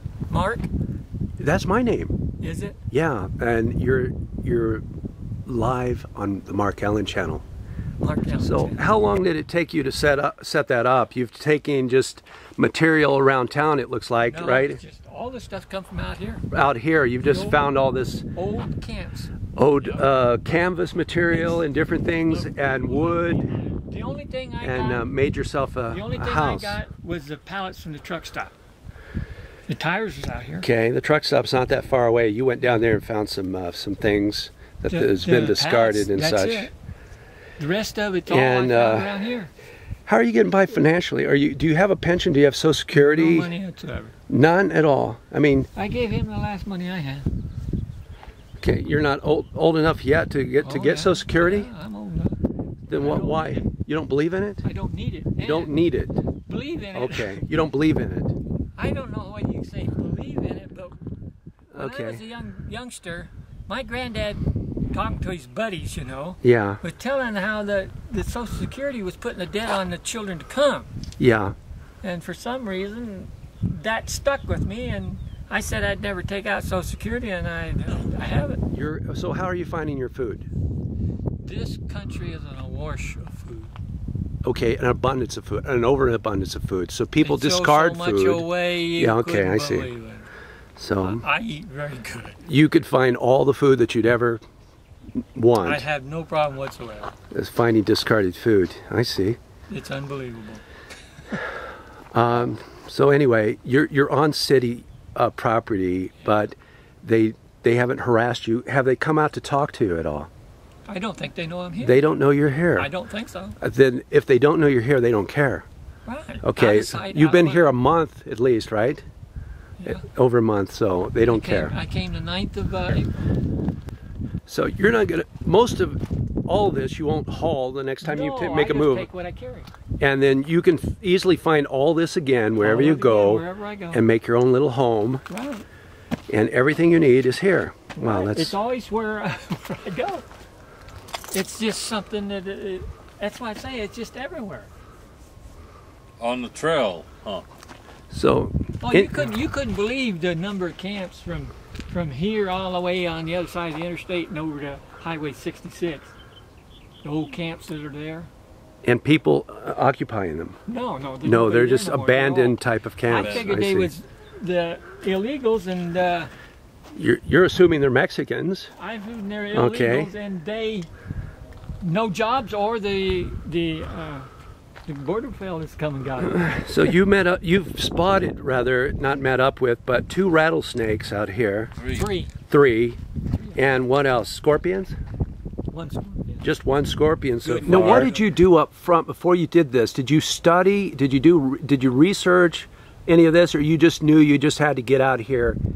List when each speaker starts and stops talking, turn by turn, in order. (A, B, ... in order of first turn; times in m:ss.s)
0:00.3-0:00.7 A
0:01.4-0:02.1 B
0:02.4-0:02.8 A
0:02.9-0:04.8 B
0:05.4-0:07.4 B
0:08.0-0:08.8 A
0:08.3-0:14.8 B
0:14.3-0:16.4 A
0:16.5-0:18.2 B
0:17.2-0:17.6 A
0:18.3-0:20.1 A
0:19.6-0:23.4 B
0:21.3-0:25.1 A
0:24.6-0:26.8 B
0:25.9-0:28.5 A
0:29.7-0:30.7 A
0:30.6-0:36.7 B
0:34.9-0:36.7 A
0:37.6-0:39.5 A
0:38.3-0:39.2 B
0:40.0-0:43.5 B
0:42.9-0:44.1 A
0:44.3-0:45.7 B
0:45.7-0:47.3 A
0:48.6-0:51.7 B
0:50.6-0:52.4 A
0:52.9-0:54.6 B
0:52.9-0:53.6 A
0:54.6-0:55.7 A
0:55.4-0:56.2 B
0:56.4-0:57.5 A
0:56.9-0:58.3 B
0:58.8-1:01.0 A
1:01.7-1:02.2 B
1:01.8-1:10.9 A
1:06.4-1:06.8 B
1:11.2-1:11.5 B
1:12.0-1:18.6 A
1:18.7-1:20.5 B
1:21.4-1:23.7 A
1:24.4-1:29.9 B
1:27.2-1:30.3 A
1:30.8-1:31.2 B
1:31.0-1:32.4 A
1:32.4-1:34.4 B
1:35.3-1:35.8 B
1:35.6-1:37.1 A
1:37.3-1:39.4 B
1:39.7-1:40.6 A
1:42.1-1:50.3 B
1:50.8-1:52.0 A
1:51.8-1:52.9 B
1:52.8-1:53.6 A
1:53.6-1:55.6 B
1:56.0-1:57.7 A
1:56.4-1:59.0 B
1:59.8-2:01.7 B
2:01.2-2:03.2 A
2:04.5-2:09.1 B
2:08.0-2:09.7 A
2:10.0-2:15.2 B
2:12.6-2:14.0 A
2:15.3-2:15.6 A
2:16.3-2:18.5 B
2:18.0-2:20.2 A
2:21.3-2:24.7 A
2:26.2-2:27.4 C
2:28.1-2:29.3 B
2:28.8-2:36.1 A
2:37.0-2:38.3 A
2:38.8-2:40.6 B
2:40.7-2:46.3 A
2:41.2-2:43.9 B
2:43.1-2:43.5 C
2:46.9-2:48.7 B
2:48.8-2:50.9 A
2:49.5-2:50.1 B
2:51.8-2:54.3 A
2:54.8-2:56.9 A
2:56.2-3:01.7 B
3:01.8-3:02.0 C
3:01.9-3:02.3 A
3:02.5-3:03.0 B
3:03.5-3:04.9 B
3:05.7-3:06.4 A
3:06.4-3:15.6 B
3:07.4-3:08.3 A
3:07.4-3:08.1 C